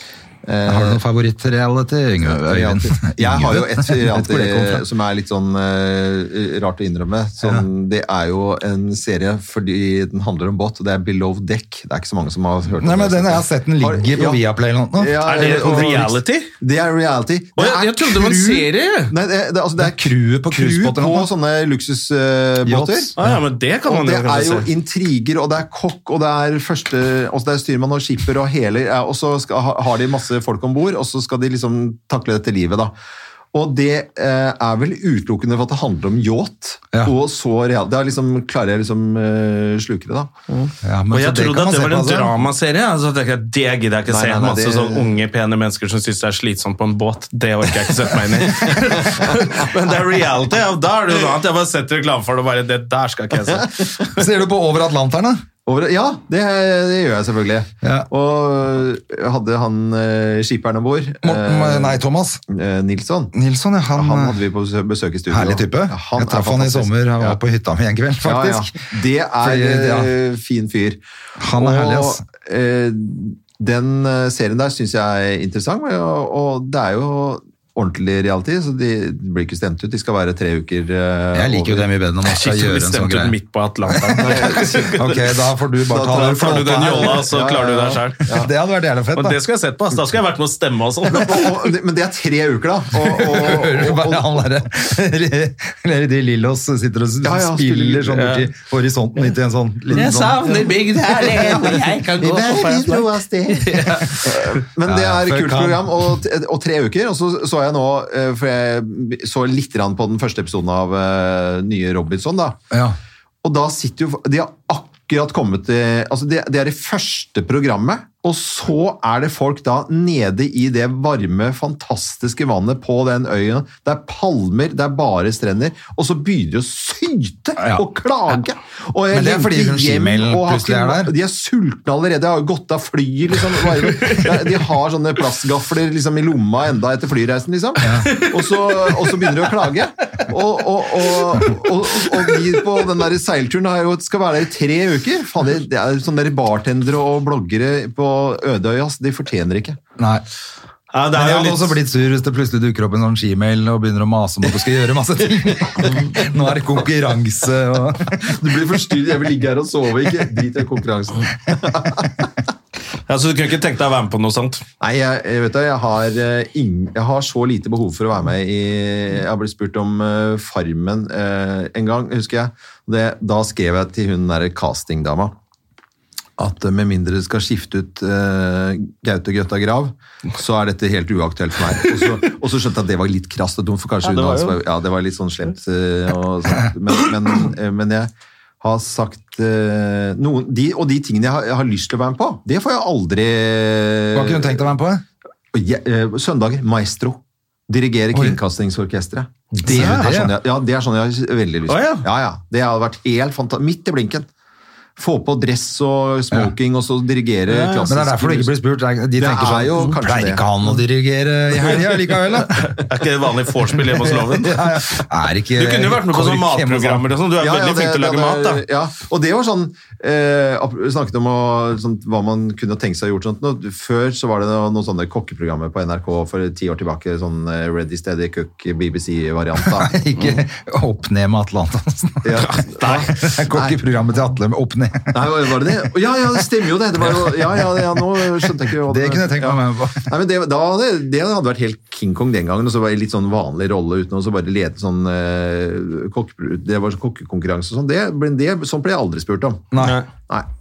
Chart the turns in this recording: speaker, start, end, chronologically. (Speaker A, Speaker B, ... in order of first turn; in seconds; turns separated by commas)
Speaker A: 0.4-1.0, Speaker B: 0.6-4.8, Speaker A: 2.3-14.4, Speaker B: 12.7-16.1, Speaker A: 14.9-23.1, Speaker C: 15.2-16.5, Speaker C: 17.6-19.1, Speaker B: 19.8-21.3, Speaker B: 22.6-23.4, Speaker C: 23.2-24.7, Speaker A: 23.9-32.9, Speaker A: 33.5-40.3, Speaker C: 40.5-54.0, Speaker B: 40.8-42.5, Speaker A: 44.1-45.1, Speaker A: 49.0-49.3, Speaker A: 53.6-54.1, Speaker B: 54.1-55.4, Speaker A: 55.6-63.4, Speaker B: 57.8-58.1, Speaker B: 61.2-62.4, Speaker B: 63.3-64.4, Speaker A: 63.9-67.4, Speaker B: 65.3-68.8, Speaker A: 68.2-71.0, Speaker B: 69.4-70.1, Speaker B: 71.4-72.2, Speaker A: 71.5-81.9, Speaker B: 81.3-83.3, Speaker C: 82.3-85.2, Speaker B: 83.9-87.2, Speaker A: 84.2-85.0, Speaker A: 85.9-88.5, Speaker C: 86.1-88.2, Speaker B: 88.3-89.4, Speaker C: 89.1-91.5, Speaker A: 91.1-94.4, Speaker B: 92.9-102.0, Speaker A: 97.2-98.4, Speaker C: 98.1-98.4, Speaker A: 99.9-112.6, Speaker C: 100.0-104.5, Speaker B: 104.8-106.2, Speaker B: 112.7-113.0, Speaker A: 113.4-149.8, Speaker B: 127.6-127.9, Speaker B: 129.1-131.1, Speaker B: 137.8-138.1, Speaker C: 138.0-139.3, Speaker B: 150.0-150.2, Speaker C: 150.9-151.8, Speaker B: 151.1-158.5, Speaker A: 158.1-162.3, Speaker C: 163.1-164.6, Speaker A: 164.8-175.3, Speaker A: 176.4-188.1, Speaker C: 184.0-184.6, Speaker A: 188.6-194.7, Speaker B: 194.1-195.0, Speaker A: 195.5-204.3, Speaker B: 198.1-198.4, Speaker C: 199.6-200.1, Speaker B: 199.6-200.3, Speaker C: 201.7-202.1, Speaker A: 205.0-208.5, Speaker C: 207.5-207.9, Speaker B: 207.9-212.8, Speaker A: 209.2-210.5, Speaker C: 212.6-214.6, Speaker B: 213.9-217.1, Speaker C: 215.5-218.6, Speaker A: 217.4-229.9, Speaker B: 229.6-235.8, Speaker A: 232.2-233.8, Speaker C: 232.5-233.1, Speaker A: 235.1-249.8, Speaker B: 237.1-240.1, Speaker B: 249.7-250.0, Speaker C: 249.8-250.1